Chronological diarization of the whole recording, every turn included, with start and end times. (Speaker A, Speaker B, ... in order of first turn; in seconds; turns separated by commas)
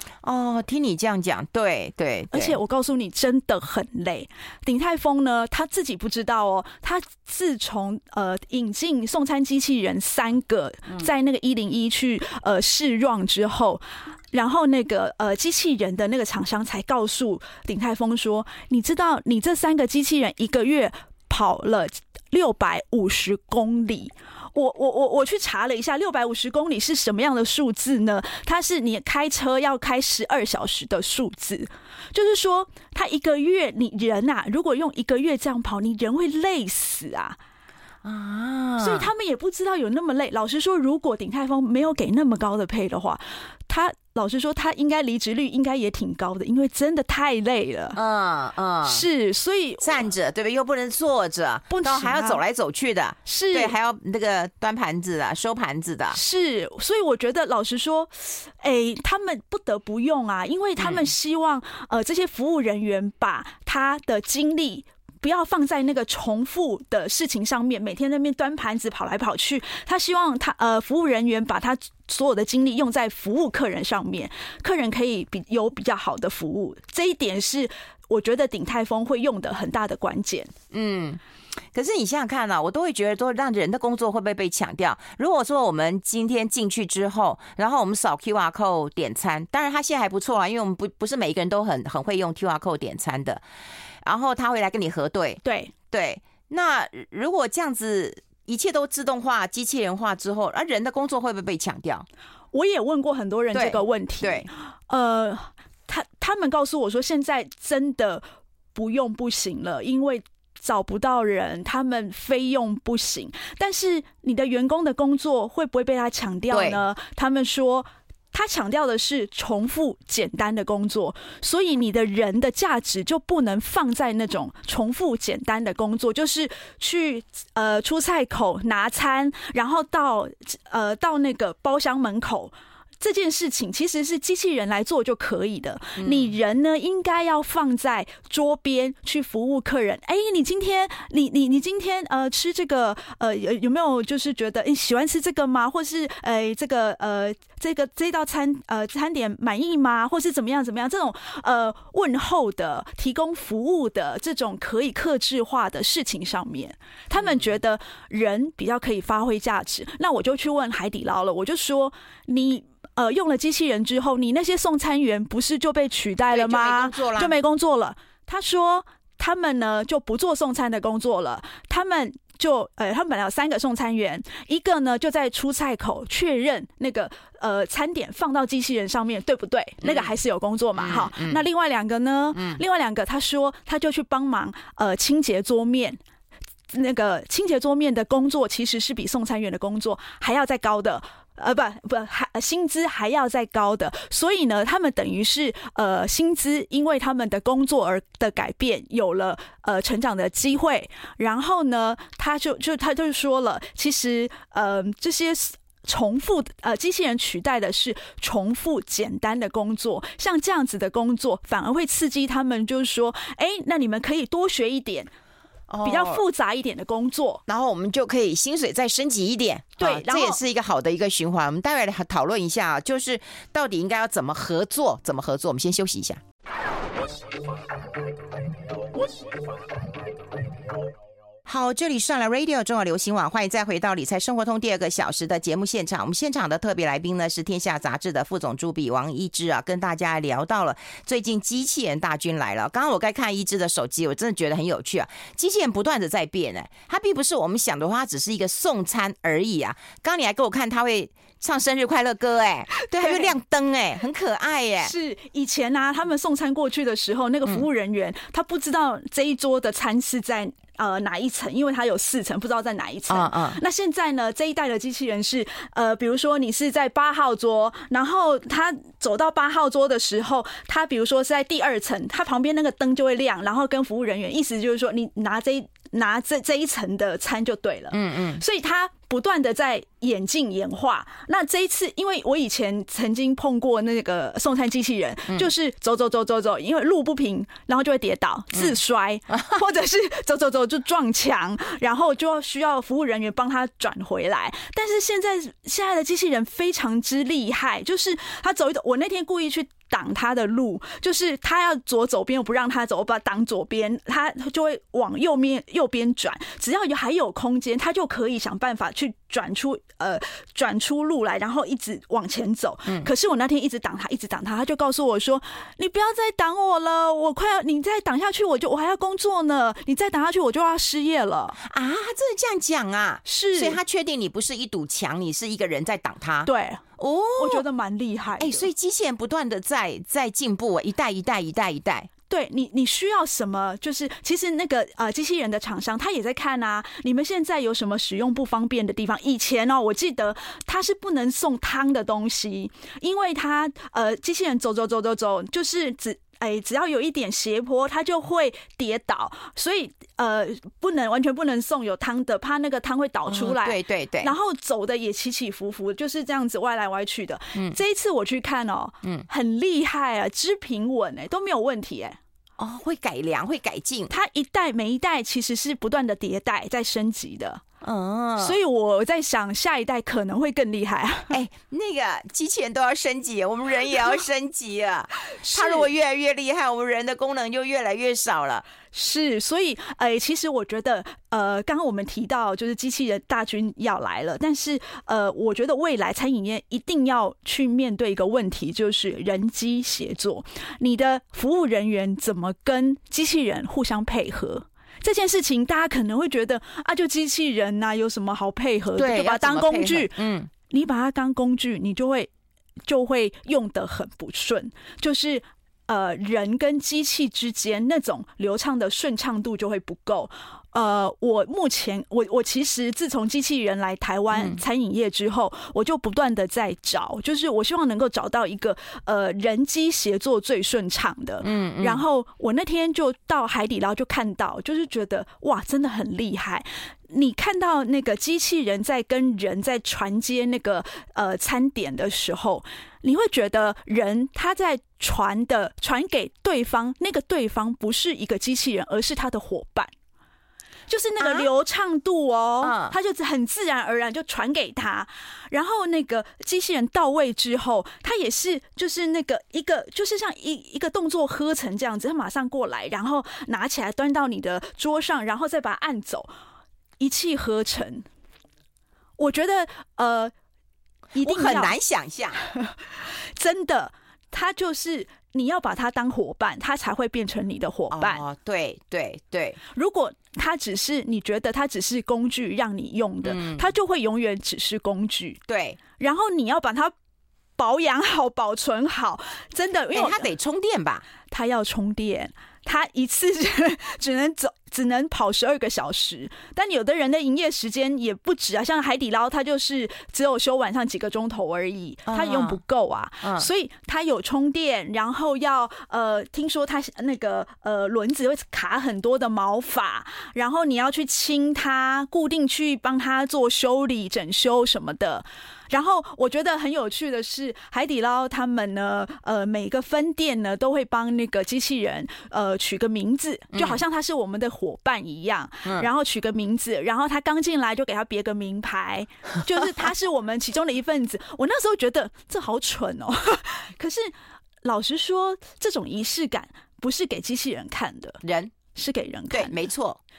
Speaker A: 0.2-2.6, Speaker B: 2.3-37.4, Speaker A: 38.0-39.1, Speaker B: 38.8-48.0, Speaker A: 48.0-49.1, Speaker B: 48.9-50.0, Speaker A: 49.8-56.2, Speaker B: 51.7-52.4, Speaker B: 53.2-53.8, Speaker B: 56.1-80.5, Speaker A: 60.8-61.1, Speaker A: 80.7-81.2, Speaker A: 81.7-93.4, Speaker A: 94.0-102.1, Speaker B: 95.4-95.7, Speaker B: 102.5-108.2, Speaker A: 103.5-104.5, Speaker B: 108.8-186.0, Speaker A: 116.5-116.8, Speaker A: 136.0-136.3, Speaker A: 166.3-167.4, Speaker A: 179.8-180.1, Speaker A: 180.8-181.4, Speaker A: 182.3-182.6, Speaker B: 186.7-215.1, Speaker A: 215.7-216.2, Speaker B: 215.8-217.4, Speaker A: 217.5-226.2, Speaker B: 219.8-220.4, Speaker A: 231.5-254.9, Speaker B: 253.0-253.3, Speaker B: 254.8-321.6, Speaker A: 263.1-263.6, Speaker A: 277.9-278.4, Speaker A: 321.6-327.6, Speaker B: 323.2-323.8, Speaker B: 326.4-326.8, Speaker B: 327.4-328.7, Speaker A: 328.4-332.1, Speaker B: 332.3-362.2, Speaker A: 353.3-354.3, Speaker A: 362.6-364.1, Speaker B: 364.1-367.6, Speaker A: 367.8-368.6, Speaker B: 368.4-371.3, Speaker A: 371.3-378.6, Speaker B: 375.4-375.9, Speaker B: 378.9-402.3, Speaker A: 398.9-400.5, Speaker B: 402.9-439.9, Speaker A: 414.3-414.6, Speaker A: 421.4-422.0, Speaker B: 440.9-456.3, Speaker A: 441.2-441.5, Speaker A: 442.6-442.9, Speaker B: 457.0-458.1, Speaker B: 459.2-460.3, Speaker B: 461.1-461.8, Speaker A: 461.2-462.4, Speaker B: 462.4-468.2, Speaker A: 467.9-469.6, Speaker B: 469.7-475.4, Speaker A: 473.2-473.7, Speaker A: 475.5-475.8, Speaker B: 476.0-476.9, Speaker B: 477.6-480.3, Speaker A: 479.9-481.1, Speaker B: 481.3-524.1, Speaker A: 492.1-492.6, Speaker A: 493.2-493.5, Speaker B: 524.6-528.2, Speaker A: 528.2-528.5, Speaker B: 528.7-529.6, Speaker A: 529.3-530.0